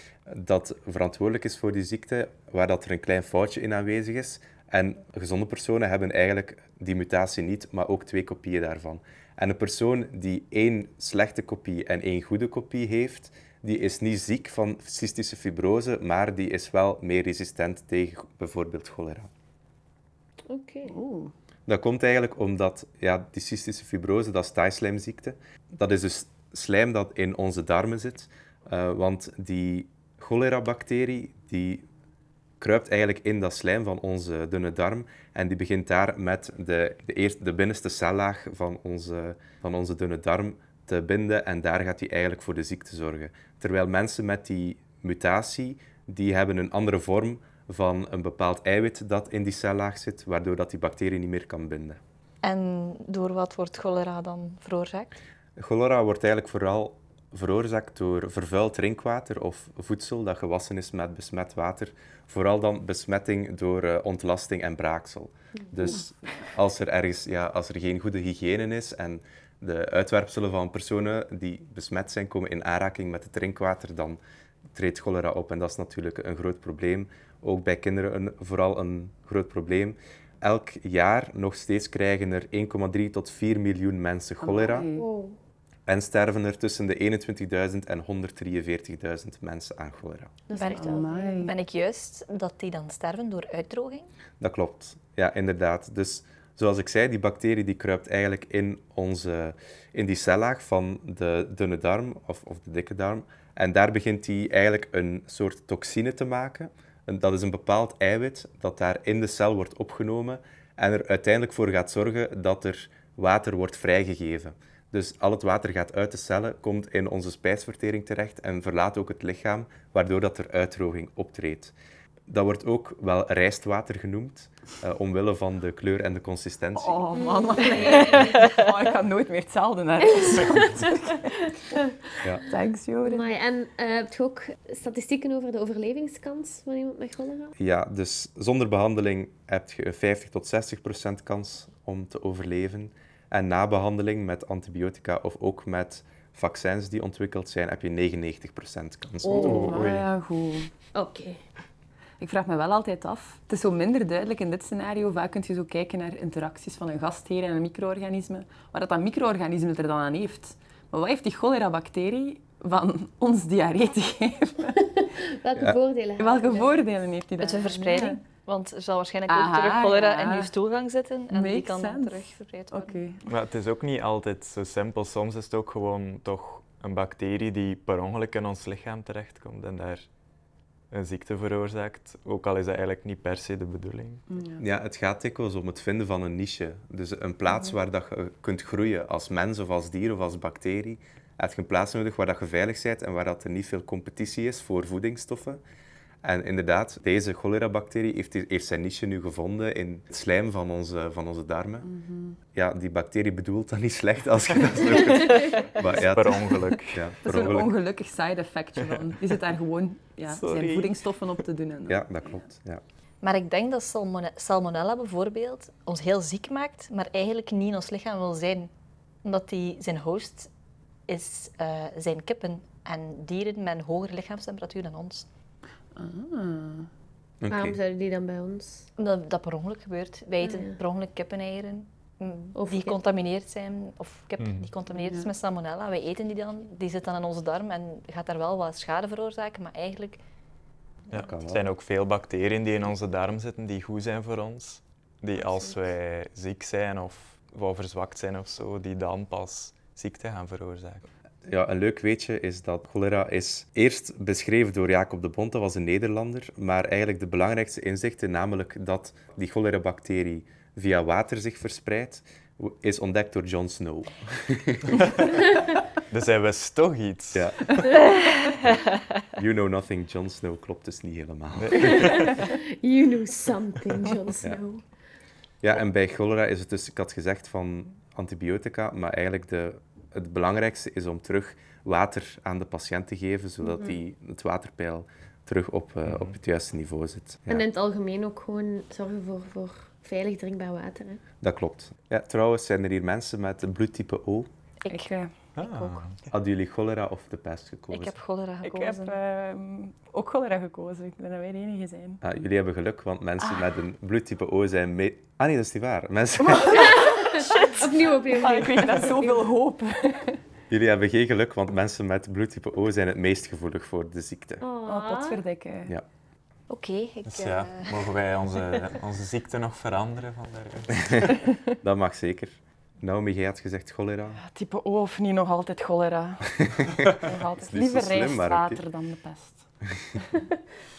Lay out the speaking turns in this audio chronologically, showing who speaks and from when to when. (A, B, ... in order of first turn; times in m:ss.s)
0:00.3-0:19.3 A
0:20.5-0:21.0 B
0:20.9-0:21.3 C
0:21.7-0:31.9 A
0:32.6-0:52.0 A
0:52.4-0:55.2 D
0:55.6-1:14.2 A
1:14.7-1:24.9 A
1:24.4-1:25.1 C
1:25.0-1:25.4 B
1:25.9-1:30.3 A
1:30.5-1:31.4 B
1:30.6-1:34.1 D
1:30.7-1:31.5 C
1:34.4-2:01.7 A
2:02.3-2:07.2 A
2:06.8-2:11.4 C
2:07.5-2:08.5 B
2:12.5-2:13.3 C
2:13.0-2:17.5 B
2:17.6-2:29.9 A
2:29.2-2:30.7 C
2:29.3-2:30.0 E
2:30.9-2:31.4 B
2:32.2-2:44.9 C
2:44.9-2:46.9 B
2:46.2-2:48.2 C
2:47.4-2:53.0 D
2:49.3-2:50.5 C
2:51.3-2:53.3 C
2:53.2-3:00.0 E
3:00.9-3:04.2 E
3:04.3-3:04.6 C
3:04.6-3:15.6 A
3:16.2-3:21.9 A
3:21.8-3:22.4 C
3:22.5-3:27.8 A
3:25.8-3:27.0 E
3:27.2-3:32.4 C
3:30.3-3:30.9 E
3:31.9-3:32.8 A
3:33.2-3:38.7 D
3:39.2-3:40.5 D
3:41.1-3:45.2 D
3:46.0-3:46.9 C
3:47.4-3:47.8 A
3:47.5-3:48.9 B
3:49.0-4:00.2 D
3:50.4-3:50.8 B
3:52.5-3:53.0 B
3:54.4-3:54.7 E
3:55.0-3:55.3 C
4:01.1-4:11.1 E
4:01.1-4:01.6 A
4:05.4-4:05.7 B
4:11.5-4:25.1 A
4:26.1-4:27.7 E
4:27.3-4:27.8 A
4:29.3-4:32.2 A
4:31.5-4:32.4 E
4:31.8-4:34.8 B
4:35.6-4:47.7 A
4:43.6-4:44.0 B
4:46.0-4:46.3 E
4:47.5-4:51.2 B
4:51.4-4:54.5 A
4:54.8-4:56.0 D
4:54.9-4:55.3 C
4:55.6-4:56.3 E
4:56.3-4:58.2 A
4:57.9-4:59.2 D
4:58.6-5:02.2 C
5:02.2-5:07.2 A
5:06.4-5:10.4 C
5:06.8-5:09.4 B
5:10.7-5:14.6 A
5:14.6-5:15.4 B
5:14.8-5:15.9 C
5:16.7-5:18.1 D
5:17.2-5:21.3 E
5:21.0-5:21.2 A
5:21.8-5:24.4 A
5:24.4-5:29.7 C
5:26.6-5:28.8 A